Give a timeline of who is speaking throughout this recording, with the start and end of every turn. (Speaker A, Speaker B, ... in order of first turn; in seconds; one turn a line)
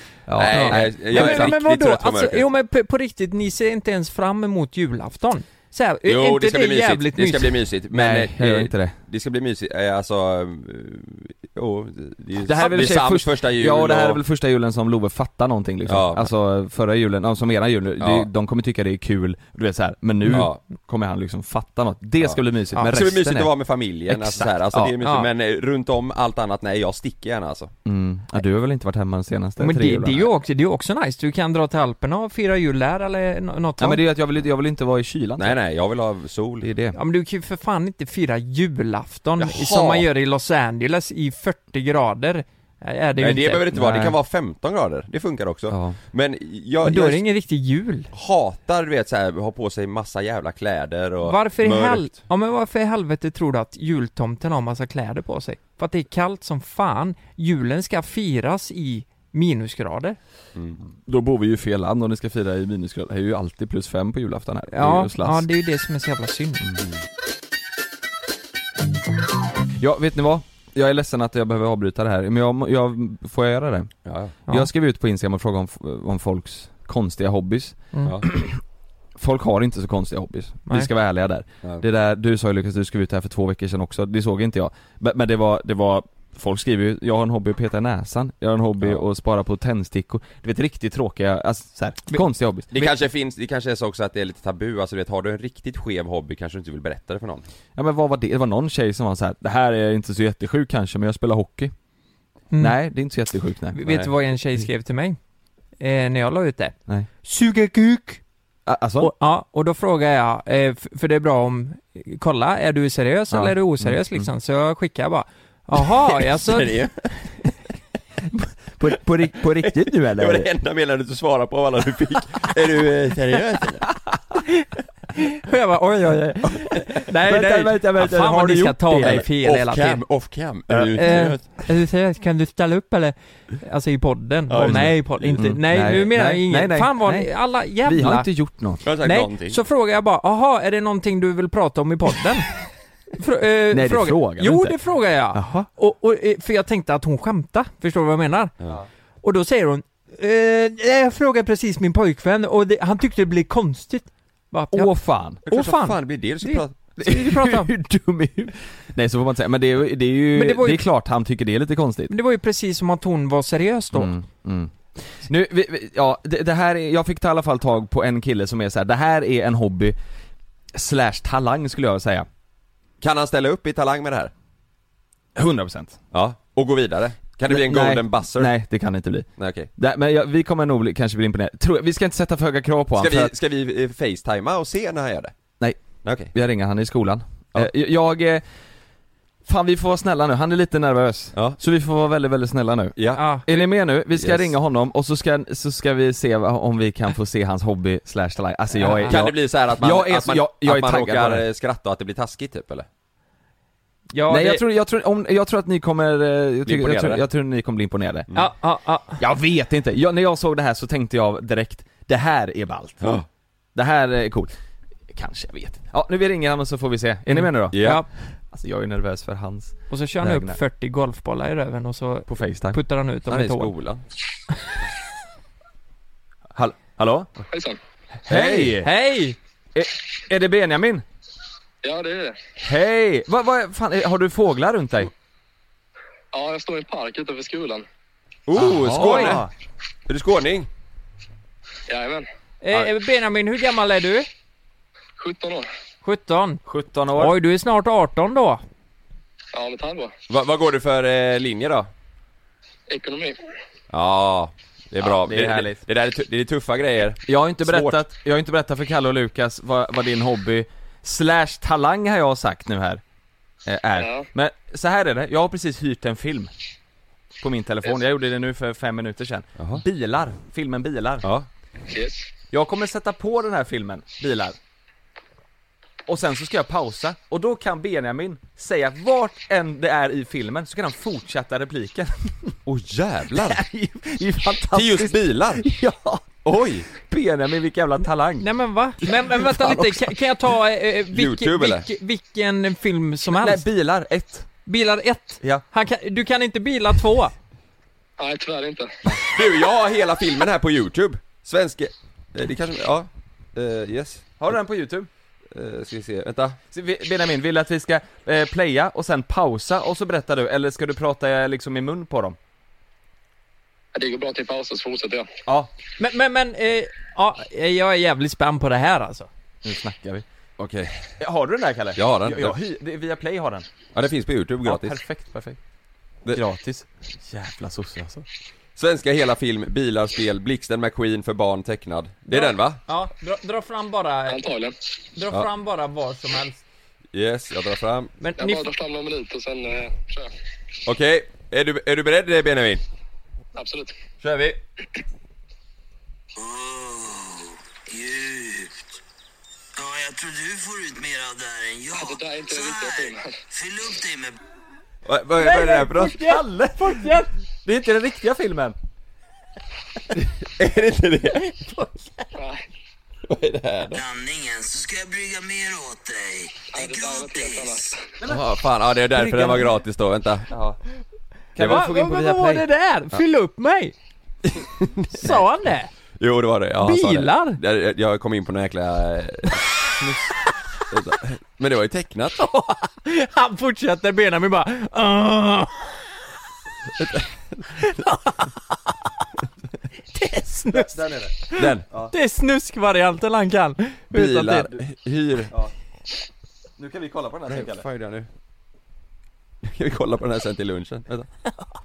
Speaker A: 0.3-1.6
Speaker B: 0.4-2.5
Speaker C: 0.4-7.5
Speaker B: 6.0-14.2
Speaker A: 7.9-8.9
Speaker A: 12.4-23.5
Speaker B: 15.9-16.3
Speaker B: 18.0-18.3
Speaker B: 20.3-20.6
Speaker B: 22.9-27.7
Speaker A: 24.1-24.9
Speaker C: 25.0-25.3
Speaker A: 27.9-30.3
Speaker C: 29.6-34.0
Speaker A: 33.8-35.5
Speaker B: 35.4-36.7
Speaker A: 36.6-37.0
Speaker C: 36.9-43.6
Speaker B: 39.4-40.0
Speaker B: 43.2-47.2
Speaker A: 43.7-44.1
Speaker A: 45.7-46.0
Speaker C: 46.8-48.1
Speaker B: 48.1-52.1
Speaker C: 51.2-60.2
Speaker A: 61.0-65.5
Speaker C: 64.7-66.6
Speaker A: 69.8-73.9
Speaker B: 74.0-74.3
Speaker A: 74.5-78.6
Speaker A: 79.2-92.7
Speaker B: 92.7-97.4
Speaker A: 97.8-101.7
Speaker A: 102.6-103.9
Speaker C: 103.7-105.2
Speaker C: 105.8-108.2
Speaker A: 108.7-109.1
Speaker C: 109.0-116.8
Speaker A: 113.3-114.3
Speaker B: 116.3-116.9
Speaker A: 118.3-120.5
Speaker B: 120.2-123.9
Speaker C: 125.2-130.0
Speaker A: 127.2-129.2
Speaker B: 129.0-131.4
Speaker C: 130.9-138.3
Speaker B: 134.5-135.4
Speaker A: 134.6-138.8
Speaker B: 138.8-139.6
Speaker C: 139.0-142.5
Speaker C: 143.2-148.5
Speaker A: 143.7-144.8
Speaker A: 145.3-145.7
Speaker C: 149.2-157.7
Speaker A: 154.7-155.4
Speaker B: 155.5-156.7
Speaker A: 157.0-162.1
Speaker C: 160.3-160.8
Speaker C: 162.1-164.1
Speaker A: 163.9-169.9
Speaker A: 170.7-172.3
Speaker B: 173.0-174.3
Speaker A: 175.3-176.0
Speaker B: 176.1-178.5
Speaker A: 177.5-183.3
Speaker B: 179.4-179.7
Speaker B: 183.0-185.3
Speaker B: 186.0-186.3
Speaker A: 186.3-188.4
Speaker A: 189.4-201.4
Speaker B: 193.0-194.5
Speaker C: 193.2-193.4
Speaker C: 198.8-199.2
Speaker B: 199.1-202.8
Speaker C: 204.1-204.6
Speaker A: 204.3-208.3
Speaker B: 206.7-207.2
Speaker C: 208.3-209.2
Speaker A: 209.2-213.1
Speaker A: 213.7-214.5
Speaker A: 215.1-220.6
Speaker C: 217.3-218.1
Speaker B: 217.7-218.0
Speaker C: 219.9-223.7
Speaker A: 222.3-222.8
Speaker B: 223.3-224.0
Speaker A: 226.5-227.3
Speaker D: 227.5-227.8
Speaker A: 228.3-228.9
Speaker B: 228.3-228.7
Speaker C: 228.8-229.3
Speaker A: 229.7-231.0
Speaker D: 231.8-232.3
Speaker A: 232.6-235.1
Speaker D: 236.3-237.8
Speaker B: 238.5-239.4
Speaker A: 238.5-239.5
Speaker C: 239.0-239.3
Speaker B: 240.1-240.7
Speaker D: 241.9-242.3
Speaker C: 242.6-244.3
Speaker D: 245.2-245.7
Speaker C: 246.0-246.6
Speaker A: 246.7-247.3
Speaker C: 247.1-248.6
Speaker D: 249.5-250.1
Speaker B: 250.3-251.8
Speaker D: 252.9-253.4
Speaker B: 253.9-258.0
Speaker A: 255.0-255.8
Speaker A: 257.2-263.0
Speaker A: 263.6-266.5
Speaker D: 263.9-264.3
Speaker A: 267.4-271.2
Speaker B: 269.6-269.8
Speaker D: 271.9-272.2
Speaker A: 272.5-274.6
Speaker A: 276.1-282.5
Speaker B: 282.6-283.6
Speaker A: 283.3-286.2
Speaker B: 284.7-285.6
Speaker B: 286.4-286.9
Speaker A: 286.9-288.5
Speaker C: 288.4-293.6
Speaker A: 289.0-290.1
Speaker B: 291.1-291.9
Speaker A: 293.4-294.5
Speaker C: 294.6-297.3
Speaker D: 298.2-298.9
Speaker B: 299.2-304.3
Speaker A: 304.4-305.1
Speaker B: 305.5-306.6
Speaker A: 306.7-312.4
Speaker D: 313.9-315.3
Speaker A: 315.5-315.7
Speaker C: 316.0-319.3
Speaker A: 319.6-320.2
Speaker B: 320.6-321.0
Speaker A: 321.2-323.7
Speaker B: 322.0-322.6
Speaker B: 323.9-325.0
Speaker A: 324.6-325.6
Speaker A: 326.3-328.2
Speaker B: 328.8-332.8
Speaker C: 332.3-334.5
Speaker D: 334.3-334.7
Speaker C: 335.1-336.6
Speaker B: 337.1-338.1
Speaker C: 338.2-338.7
Speaker D: 338.4-340.3
Speaker B: 340.9-342.8
Speaker D: 343.6-343.9
Speaker B: 344.2-344.6
Speaker E: 346.4-349.0
Speaker E: 349.8-354.4
Speaker D: 352.0-353.3
Speaker B: 355.1-356.2
Speaker C: 355.4-357.3
Speaker A: 356.0-358.8
Speaker B: 360.6-361.4
Speaker C: 361.5-362.3
Speaker D: 362.4-362.6
Speaker B: 363.3-364.0
Speaker E: 363.9-367.9
Speaker D: 366.7-367.9
Speaker B: 368.2-370.5
Speaker C: 369.2-369.7
Speaker A: 371.6-372.6
Speaker C: 371.6-373.9
Speaker B: 374.8-375.4
Speaker C: 375.1-375.9
Speaker B: 376.2-380.1
Speaker C: 376.8-377.6
Speaker B: 380.9-382.4
Speaker C: 382.4-385.9
Speaker C: 387.8-388.7
Speaker C: 390.1-394.7
Speaker A: 390.7-391.3
Speaker B: 391.6-391.9
Speaker B: 394.1-395.5
Speaker A: 396.8-397.9
Speaker B: 397.5-398.3
Speaker B: 399.7-401.3